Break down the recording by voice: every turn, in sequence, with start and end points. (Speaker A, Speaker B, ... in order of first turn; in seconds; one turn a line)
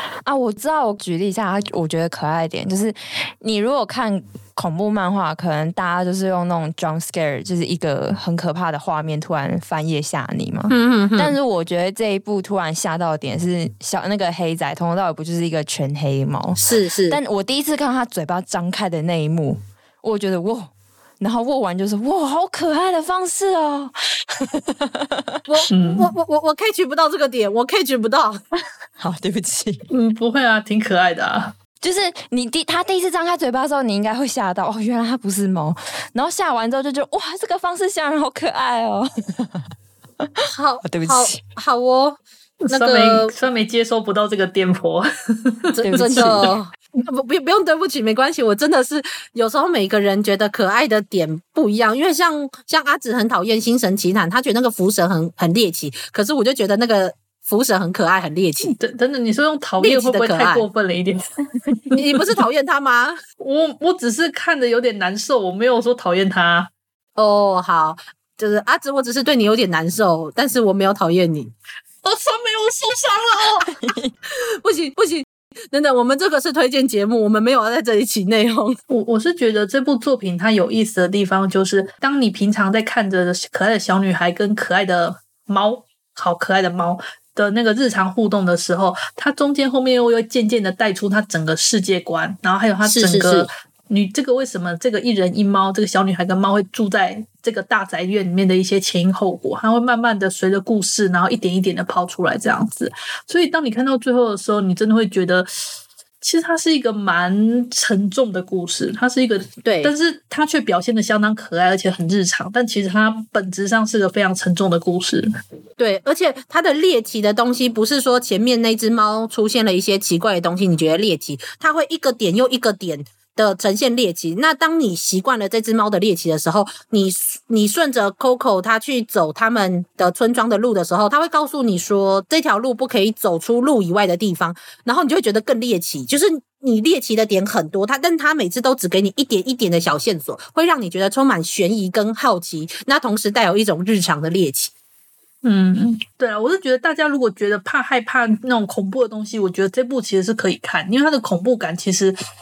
Speaker A: 0.2-25.4
Speaker B: 10.7-11.3
Speaker B: 16.6-17.2
Speaker B: 25.5-28.4
Speaker C: 25.7-26.1
Speaker A: 29.0-29.9
Speaker C: 29.9-31.5
Speaker A: 31.8-40.3
Speaker B: 40.5-43.3
Speaker A: 40.8-41.4
Speaker C: 42.6-46.3
Speaker B: 45.8-58.7
Speaker A: 45.8-46.5
Speaker C: 58.6-61.2
Speaker B: 59.8-60.7
Speaker C: 61.7-62.0
Speaker B: 61.9-63.1
Speaker C: 63.4-66.7
Speaker B: 67.2-71.5
Speaker C: 72.0-73.7
Speaker A: 73.7-74.1
Speaker B: 74.6-78.8
Speaker C: 78.9-105.7
Speaker B: 92.8-93.5
Speaker C: 106.2-115.3
Speaker B: 109.6-109.9
Speaker B: 115.8-144.7
Speaker C: 145.4-152.2